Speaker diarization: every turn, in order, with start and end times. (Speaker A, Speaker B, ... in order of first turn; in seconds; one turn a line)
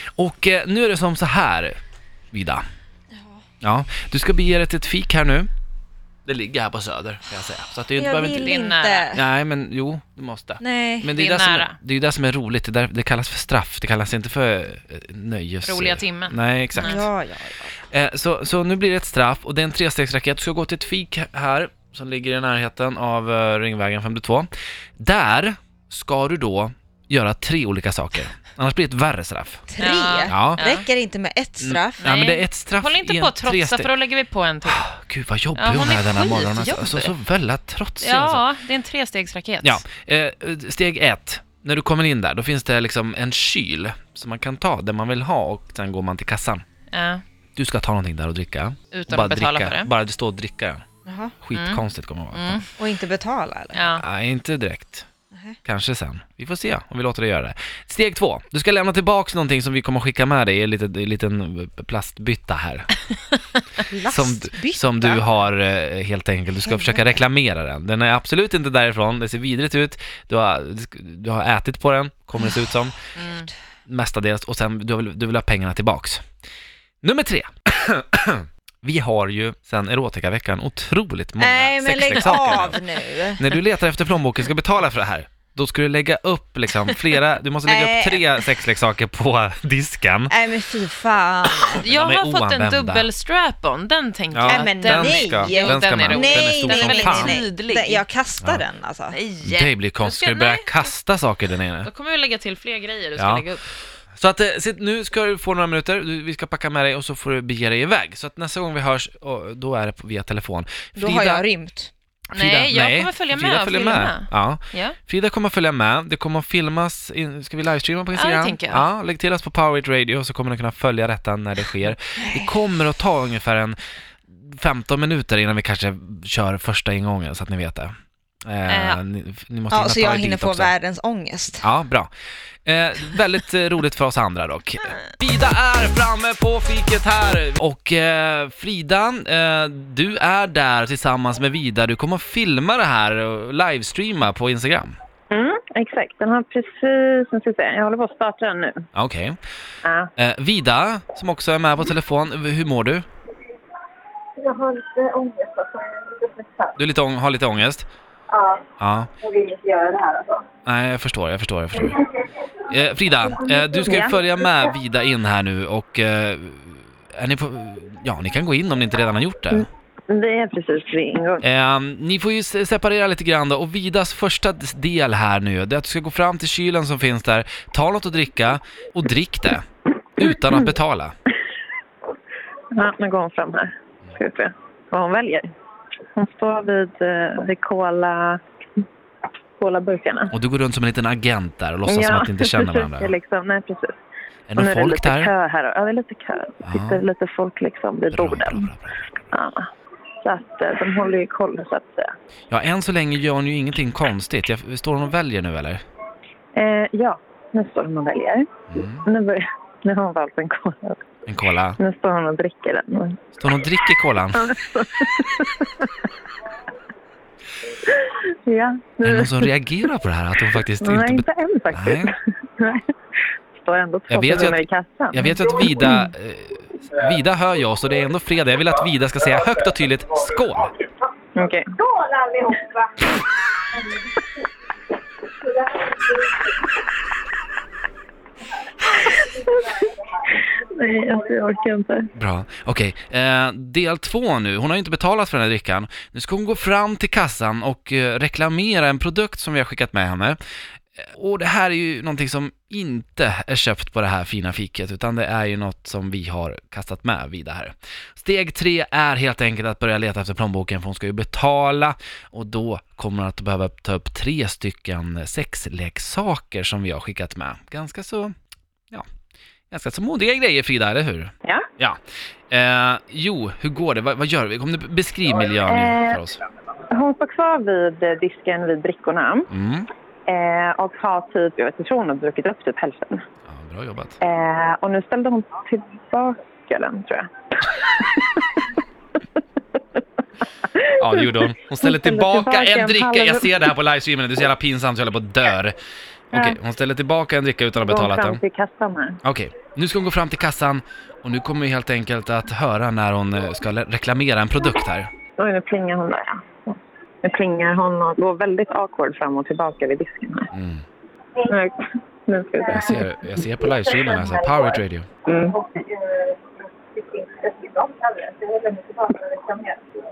Speaker A: 0.1-1.8
Speaker A: 2.3-2.6
Speaker B: 3.1-3.4
Speaker A: 3.6-5.5
Speaker A: 6.2-8.6
Speaker B: 7.9-9.2
Speaker C: 8.3-9.1
Speaker A: 9.1-17.1
Speaker B: 10.6-11.1
Speaker C: 11.1-11.8
Speaker C: 15.6-17.1
Speaker B: 16.8-17.8
Speaker A: 17.9-29.6
Speaker B: 29.7-32.1
Speaker C: 29.8-30.9
Speaker A: 30.3-30.6
Speaker A: 31.6-33.9
Speaker C: 32.0-34.9
Speaker A: 34.6-38.4
Speaker C: 35.5-37.1
Speaker C: 38.0-39.8
Speaker A: 39.6-46.6
Speaker C: 46.9-47.2
Speaker A: 47.5-50.9
Speaker C: 48.9-49.9
Speaker B: 51.0-51.3
Speaker A: 51.4-52.6
Speaker C: 51.5-52.7
Speaker B: 52.8-53.9
Speaker C: 53.7-54.0
Speaker A: 53.9-55.1
Speaker A: 55.6-62.9
Speaker B: 63.9-65.2
Speaker A: 64.0-73.0
Speaker B: 66.6-67.1
Speaker C: 73.1-73.5
Speaker A: 73.9-76.2
Speaker A: 77.0-82.8
Speaker B: 81.4-83.4
Speaker A: 83.4-90.3
Speaker B: 87.7-88.5
Speaker B: 90.3-91.8
Speaker C: 91.6-98.0
Speaker A: 91.8-93.1
Speaker A: 94.3-97.4
Speaker B: 94.5-99.2
Speaker C: 99.1-100.9
Speaker A: 99.4-101.9
Speaker C: 101.8-103.6
Speaker A: 103.2-103.4
Speaker A: 104.1-111.5
Speaker B: 111.0-111.9
Speaker A: 112.3-123.8
Speaker C: 112.3-115.0
Speaker C: 118.1-118.8
Speaker A: 124.3-130.7
Speaker C: 128.7-129.0
Speaker B: 129.7-131.7
Speaker A: 131.6-132.1
Speaker A: 132.6-144.9
Speaker D: 145.3-148.9
Speaker A: 148.9-149.4
Speaker D: 149.8-150.1
Speaker A: 150.2-153.1
Speaker D: 154.4-156.6
Speaker A: 156.8-157.9
Speaker D: 158.3-158.6
Speaker A: 158.8-159.1
Speaker D: 159.2-159.9
Speaker E: 159.4-160.0
Speaker A: 160.7-162.1
Speaker A: 162.7-169.7
Speaker D: 163.8-164.3
Speaker D: 170.1-171.4
Speaker A: 171.4-179.7
Speaker A: 180.2-181.2
Speaker D: 182.7-185.5
Speaker D: 186.2-188.4
Speaker D: 189.6-190.3
Speaker A: 190.3-193.1
Speaker D: 191.8-194.0
Speaker A: 194.5-195.3
Speaker D: 194.6-198.7
Speaker A: 196.6-197.0
Speaker A: 198.1-199.1
Speaker D: 199.3-199.7
Speaker D: 200.2-202.1
Speaker A: 202.5-205.8
Speaker D: 206.5-208.5
Speaker A: 208.7-209.1
Speaker D: 209.0-211.0
Speaker A: 211.2-211.8
Speaker D: 211.8-213.2
Speaker A: 213.3-214.5
Speaker D: 214.3-215.9
Speaker D: 217.8-219.5
Speaker A: 219.0-222.1
Speaker D: 220.8-222.8
Speaker D: 223.6-225.9
Speaker A: 224.1-224.6
Speaker A: 225.1-230.7
Speaker D: 231.3-231.7
Speaker E: 232.1-232.6
Speaker D: 240.5-242.1
Speaker A: 242.1-250.4
Speaker A: 251.0-268.3
Speaker A: 269.7-272.0
Speaker A: 272.5-276.4
Speaker D: 275.6-276.2
Speaker D: 276.9-279.5
Speaker A: 279.5-279.9
Speaker D: 280.3-283.2
Speaker A: 283.5-284.2
Speaker D: 284.2-288.3
Speaker D: 290.6-291.3
Speaker A: 290.9-295.8
Speaker D: 291.8-293.7
Speaker A: 296.3-298.4
Speaker D: 296.3-296.6
Speaker D: 297.9-299.2
Speaker A: 299.2-305.1
Speaker D: 305.4-310.5
Speaker A: 310.5-310.8
Speaker D: 311.4-313.1
Speaker A: 312.7-315.1
Speaker D: 315.2-315.6
Speaker E: 315.6-316.3
Speaker E: 316.9-319.8